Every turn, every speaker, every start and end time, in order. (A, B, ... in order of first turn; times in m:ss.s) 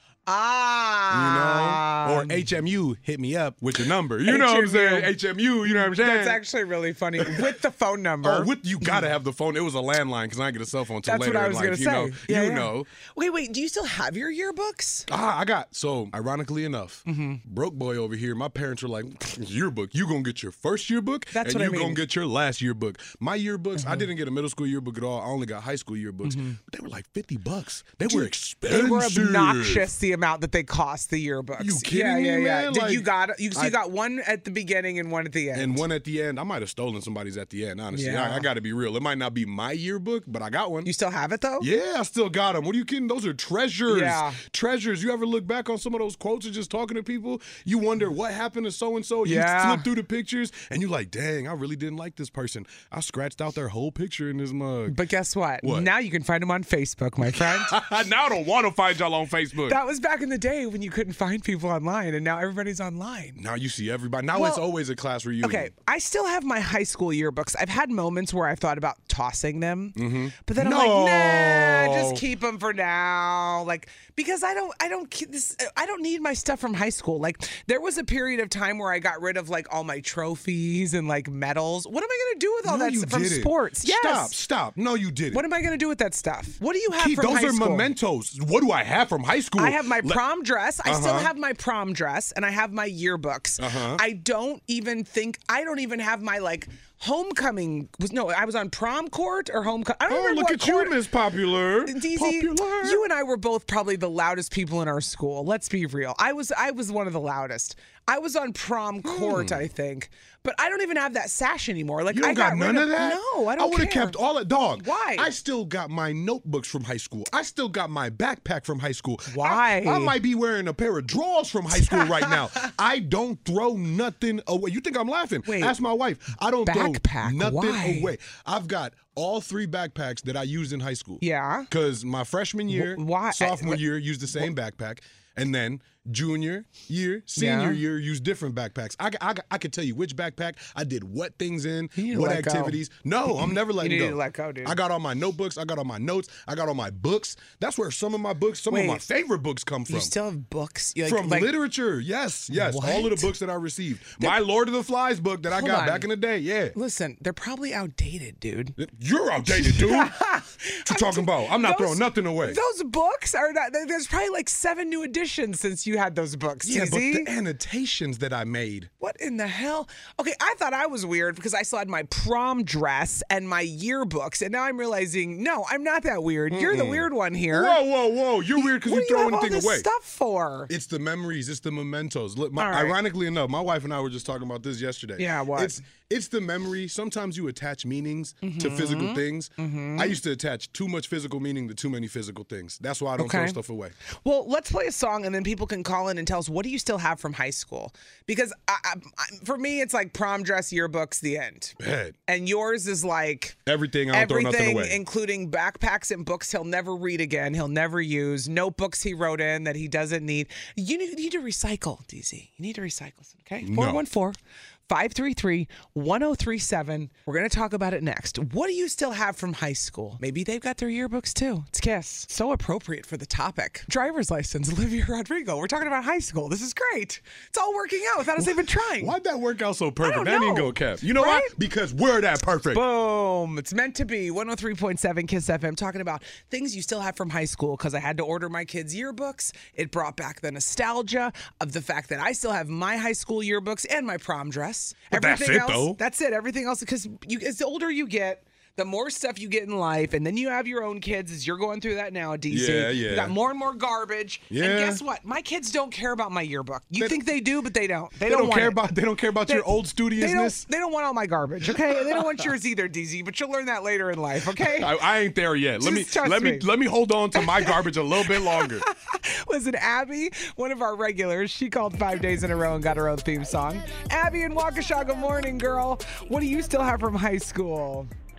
0:00.2-0:02.4 A
0:01.1-0:06.4 B
0:04.2-0:05.1 A
0:05.6-0:09.1 A
0:07.2-0:07.5 B
0:08.2-0:12.9 B
0:11.0-0:15.1 A
0:15.1-0:29.9 B
0:17.0-0:17.4 A
0:21.3-0:22.0 A
0:23.8-0:24.1 A
0:26.2-0:26.6 A
0:28.0-0:35.8 A
0:31.6-0:33.8 B
0:35.5-0:40.9 B
0:37.9-0:38.4 A
0:40.8-0:41.7 A
0:41.6-0:55.0 B
0:43.9-0:44.4 A
0:49.2-0:49.9 A
0:54.9-0:57.7 A
0:55.6-0:55.9 B
0:57.2-0:59.8 B
0:59.7-1:03.4 A
1:03.4-1:05.7 B
1:04.3-1:04.6 A
1:05.4-1:24.3 A
1:10.0-1:12.2 B
1:22.6-1:25.4 B
1:25.3-1:27.9 A
1:26.9-1:30.2 B
1:29.6-1:40.9 A
1:30.8-1:31.3 B
1:33.6-1:34.0 B
1:40.1-1:43.0 B
1:41.9-1:54.2 A
1:49.0-1:49.6 B
1:52.1-2:30.1 B
1:54.8-1:55.3 A
1:59.3-2:00.2 A
2:01.7-2:02.7 A
2:05.4-2:05.8 A
2:06.6-2:08.1 A
2:11.2-2:11.7 A
2:12.7-2:13.8 A
2:17.4-2:17.8 A
2:22.0-2:24.8 A
2:28.7-2:29.0 A
2:29.9-2:31.5 A
2:31.0-2:36.8 B
2:32.5-2:33.3 A
2:35.5-2:36.1 A
2:36.7-2:38.8 A
2:38.8-2:40.2 B
2:39.5-2:47.3 A
2:40.8-2:42.6 B
2:46.6-2:48.9 B
2:49.0-2:57.8 A
2:56.5-2:59.9 B
2:58.6-3:00.7 A
3:00.7-3:13.9 B
3:02.6-3:03.0 A
3:05.2-3:05.8 A
3:08.4-3:10.2 A
3:13.2-3:13.6 A
3:14.2-3:21.8 A
3:21.8-3:22.2 B
3:22.3-3:23.6 A
3:23.6-3:25.0 B
3:24.1-3:49.1 A
3:33.6-3:34.0 B
3:48.4-3:52.8 B
3:50.0-3:51.5 A
3:52.7-4:18.8 A
4:05.1-4:06.0 B
4:12.5-4:13.3 B
4:14.5-4:15.0 B
4:18.2-4:20.6 B
4:19.4-4:24.9 A
4:21.7-4:22.5 B
4:24.5-4:28.8 B
4:25.8-4:26.7 A
4:27.3-4:38.1 A